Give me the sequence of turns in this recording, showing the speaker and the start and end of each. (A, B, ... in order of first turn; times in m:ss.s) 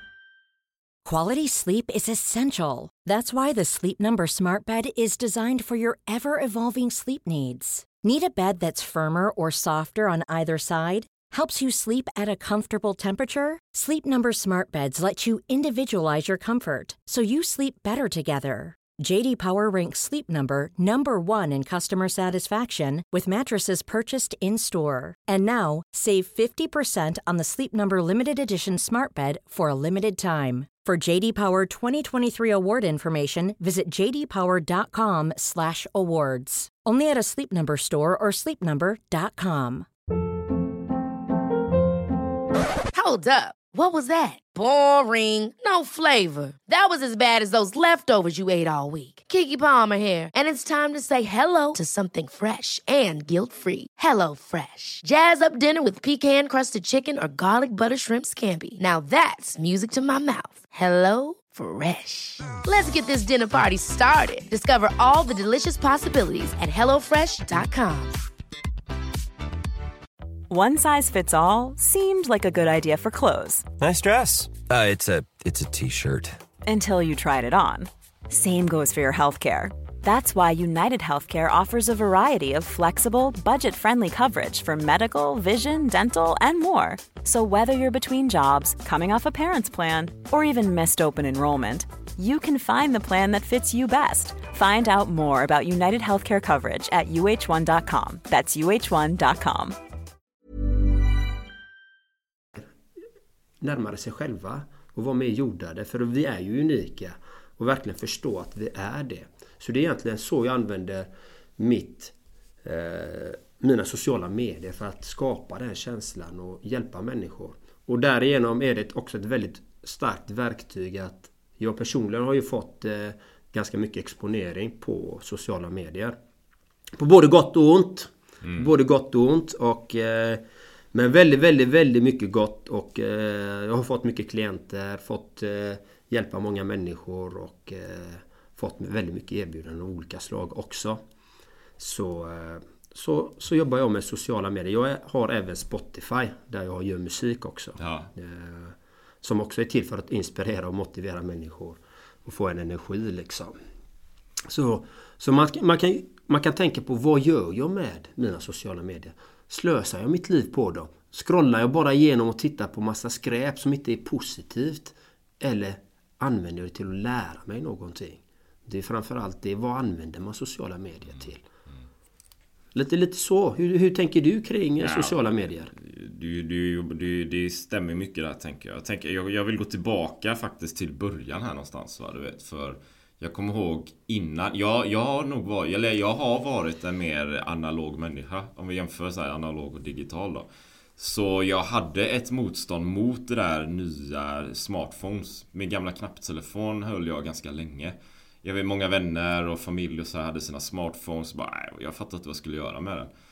0:01.0-0:39.9 A
0:42.9-1:08.2 B
1:10.5-1:13.7 C
1:13.8-1:16.4 D
1:16.7-1:39.8 C
1:43.6-1:52.1 E
1:52.6-2:06.2 E
2:07.0-2:10.4 E
2:08.4-2:08.7 F
2:10.9-2:21.0 E
2:21.8-2:33.6 E
2:27.8-2:28.1 F
2:34.5-2:51.4 E
2:52.8-2:55.7 E
2:54.8-2:55.2 F
2:55.7-3:23.1 F